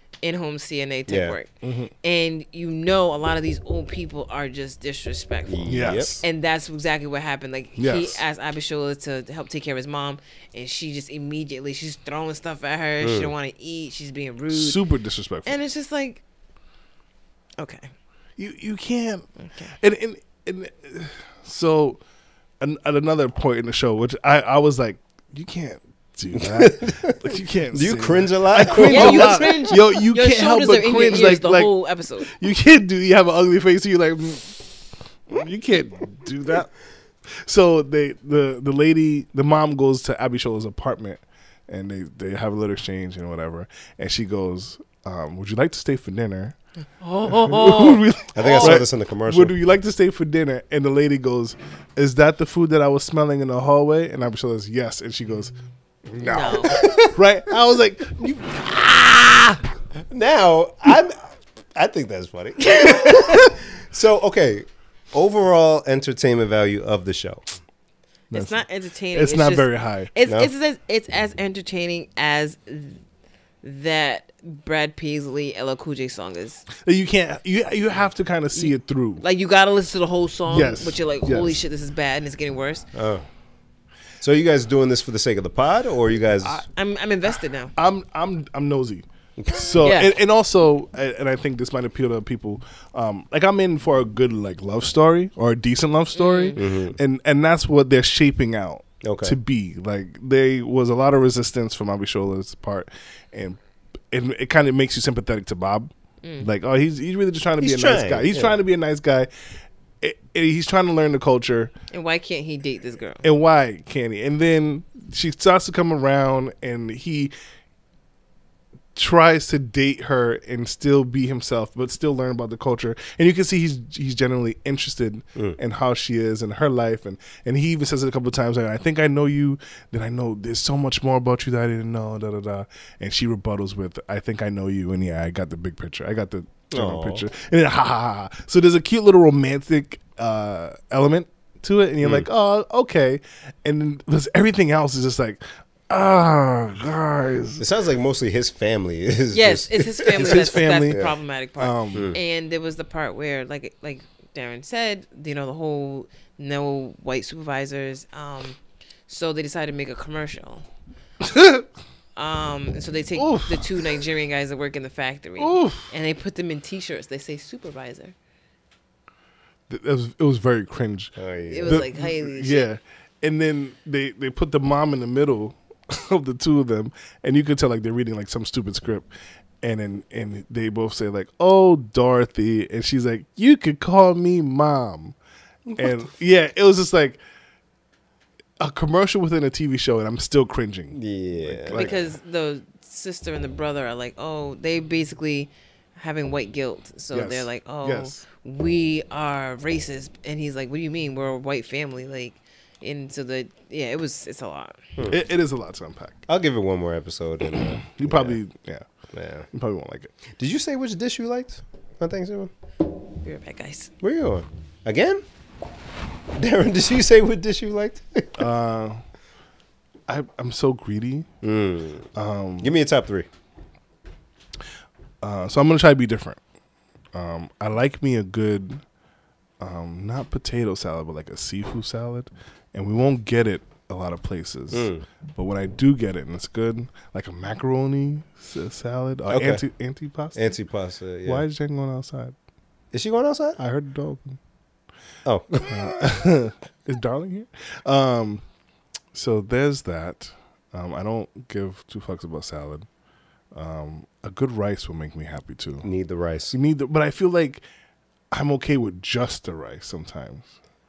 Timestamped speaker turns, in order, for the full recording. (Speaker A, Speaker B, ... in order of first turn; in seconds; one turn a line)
Speaker A: 0.2-1.5
Speaker B: 1.1-1.4
Speaker C: 1.6-1.9
Speaker A: 2.0-14.8
Speaker B: 5.5-6.2
Speaker C: 5.7-6.2
Speaker C: 7.8-8.2
Speaker B: 13.0-13.3
Speaker C: 14.5-15.5
Speaker A: 15.4-16.2
Speaker A: 17.6-17.9
Speaker C: 18.4-19.3
Speaker A: 19.4-19.7
Speaker C: 19.8-22.0
Speaker C: 22.6-31.7
Speaker B: 26.3-29.7
Speaker A: 28.8-32.3
Speaker C: 32.3-34.6
Speaker C: 35.3-36.7
Speaker C: 37.3-46.5
Speaker A: 47.0-48.8
Speaker C: 47.3-55.5
Speaker B: 48.3-49.5
Speaker C: 56.1-59.6
Speaker A: 56.2-56.8
Speaker B: 56.6-57.1
Speaker B: 60.1-67.5
Speaker A: 68.3-73.0
Speaker C: 68.3-68.6
Speaker C: 69.1-70.1
Speaker B: 70.2-70.5
Speaker A: 73.6-76.6
Speaker C: 76.8-79.2
Speaker A: 78.5-82.8
Speaker C: 80.5-81.6
Speaker B: 82.9-83.2
Speaker B: 84.2-86.6
Speaker A: 86.7-87.7
Speaker C: 87.7-103.6
Speaker B: 89.4-89.7
Speaker A: 89.8-90.1
Speaker A: 96.1-96.6
Speaker B: 96.5-97.0
Speaker B: 99.0-99.4
Speaker C: 104.1-109.3
Speaker A: 106.2-106.5
Speaker B: 107.6-108.6
Speaker C: 110.0-111.7
Speaker A: 111.9-113.2
Speaker C: 113.2-117.3
Speaker C: 118.9-147.7
Speaker B: 136.7-137.2
Speaker B: 147.6-151.2
Speaker A: 149.3-160.6
Speaker C: 150.2-150.9
Speaker C: 151.6-152.1
Speaker B: 151.9-152.2
Speaker C: 161.2-161.6
Speaker A: 162.2-168.1
Speaker C: 163.2-163.8
Speaker C: 165.4-165.9
Speaker C: 169.7-171.2
Speaker B: 171.2-171.8
Speaker A: 171.5-172.7
Speaker C: 171.7-179.1
Speaker C: 179.6-185.1
Speaker B: 185.7-186.0
Speaker C: 185.8-187.2
Speaker C: 188.6-191.9
Speaker B: 190.9-192.0
Speaker A: 191.7-204.8
Speaker C: 197.1-198.2
Speaker C: 205.1-206.2
Speaker B: 206.3-208.4
Speaker C: 207.9-208.8
Speaker B: 209.1-209.4
Speaker C: 209.5-210.1
Speaker B: 210.4-212.5
Speaker A: 213.2-213.9
Speaker B: 214.0-215.2
Speaker B: 216.3-218.4
Speaker C: 218.4-219.0
Speaker C: 220.1-221.3
Speaker B: 221.4-222.1
Speaker C: 222.1-222.7
Speaker B: 222.6-223.3
Speaker C: 225.2-226.4
Speaker C: 227.1-228.8
Speaker C: 229.6-240.5
Speaker B: 234.7-235.0
Speaker B: 239.2-239.6
Speaker B: 240.3-241.4
Speaker C: 241.2-242.3
Speaker B: 242.9-243.6
Speaker C: 243.6-244.4
Speaker B: 245.2-246.0
Speaker C: 245.7-248.4
Speaker C: 249.1-252.8
Speaker C: 253.5-255.9
Speaker B: 255.8-256.5
Speaker C: 256.5-257.6
Speaker C: 258.3-260.5